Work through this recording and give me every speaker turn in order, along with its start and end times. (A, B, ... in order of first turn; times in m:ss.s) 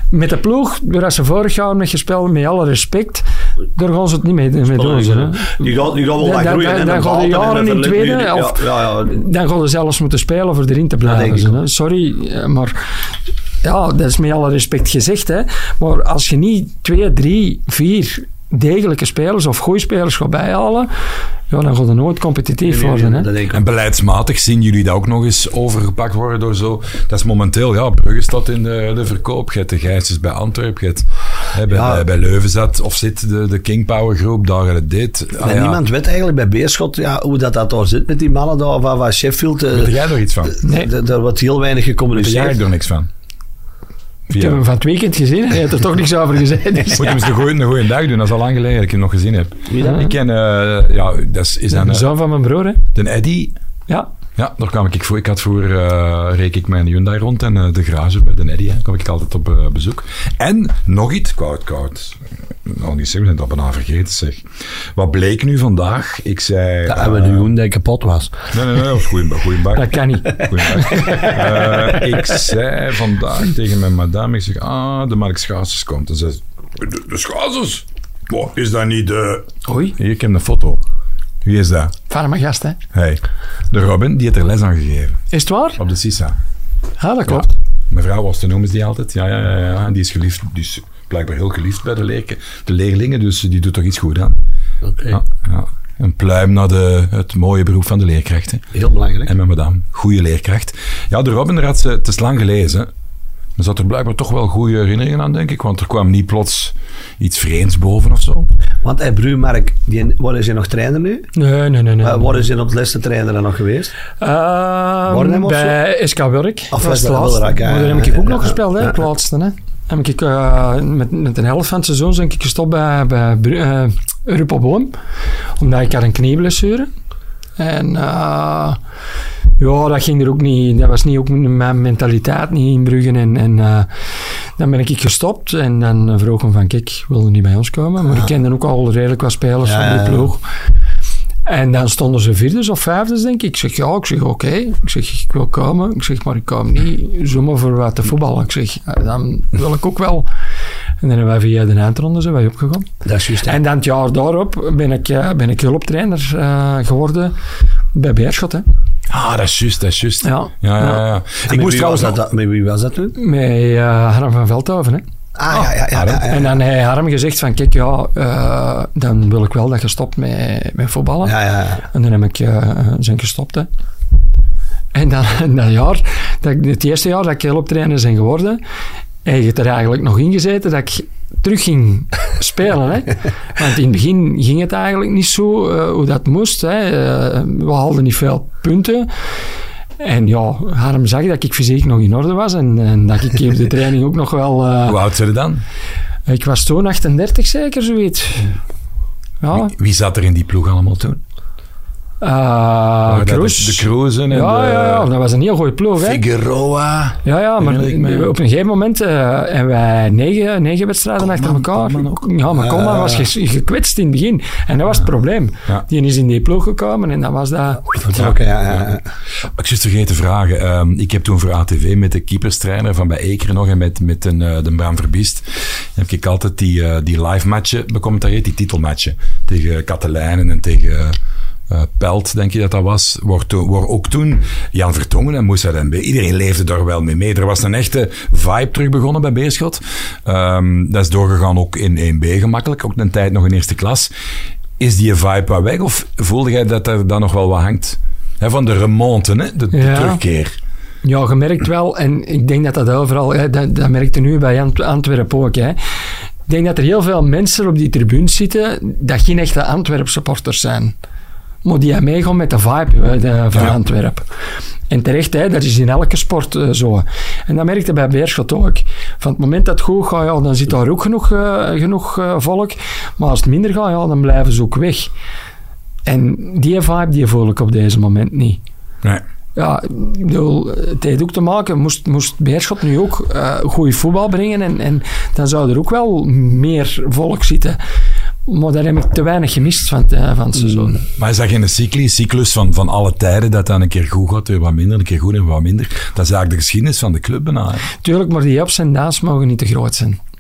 0:00.1-0:12.8 A
0:04.7-0:09.2 B
0:11.0-0:11.6 B
0:13.6-0:20.9 A
0:21.5-0:23.3 A
0:22.7-0:23.6 B
0:23.5-0:35.8 C
0:31.7-0:32.0 B
0:35.4-0:39.9 B
0:39.7-0:40.6 C
0:40.5-0:42.6 B
0:40.6-0:40.9 A
0:42.1-0:43.1 C
0:44.3-0:44.6 C
0:44.3-0:47.2 A
0:47.0-0:52.1 C
0:49.7-0:50.1 B
0:49.8-0:50.1 A
0:51.7-0:52.8 A
0:53.0-0:53.6 C
0:54.4-1:07.5 C
1:06.9-1:08.4 B
1:08.5-1:20.8 C
1:09.8-1:11.3 A
1:10.8-1:11.8 B
1:19.7-1:20.0 A
1:21.4-1:21.9 C
1:22.1-1:22.8 A
1:22.9-1:25.2 C
1:25.3-1:25.8 A
1:25.8-1:26.4 C
1:27.0-1:27.5 A
1:27.3-1:34.3 C
1:34.8-1:35.2 B
1:35.1-1:38.6 C
1:38.7-1:39.3 B
1:39.3-1:42.9 C
1:43.6-1:48.5 C
1:48.8-1:51.3 B
1:51.4-1:52.4 A
1:52.0-1:53.9 B
1:54.2-2:04.9 A
1:55.1-1:55.8 B
1:56.7-1:59.0 B
2:05.6-2:06.9 A
2:07.6-2:08.8 A
2:09.6-2:13.9 A
2:14.6-2:20.4 A
2:19.6-2:20.3 B
2:21.5-2:30.3 A
2:31.0-2:32.9 A
2:33.0-2:33.6 B
2:33.4-2:37.4 A
2:37.9-2:38.6 A
2:39.1-2:42.2 C
2:40.2-2:41.0 A
2:41.5-2:43.2 B
2:43.2-2:45.0 A
2:45.4-2:46.5 B
2:45.5-2:46.2 C
2:46.2-2:51.4 A
2:51.2-2:51.8 B
2:51.9-2:53.7 A
2:54.9-2:58.6 A
2:59.2-3:09.1 A
3:10.0-3:15.0 A
3:14.8-3:15.6 C
3:16.3-3:18.5 A
3:19.4-3:19.7 A
3:19.5-3:21.2 C
3:22.2-3:26.2 A
3:23.1-3:25.1 C
3:26.0-3:28.3 C
3:27.2-3:38.0 A
3:31.2-3:32.2 C
3:32.6-3:33.3 B
3:38.0-3:39.0 B
3:38.2-3:38.9 C
3:39.6-3:51.2 C
3:51.7-4:04.1 C
4:04.8-4:10.6 C
4:09.7-4:10.2 A
4:11.0-4:15.8 A
4:16.5-4:21.0 A
4:21.6-4:24.2 A
4:24.9-4:35.1 A
4:36.1-4:38.6 A
4:39.6-4:47.8 A
4:48.5-4:51.0 A
4:51.2-4:57.9 C
4:58.0-5:00.2 A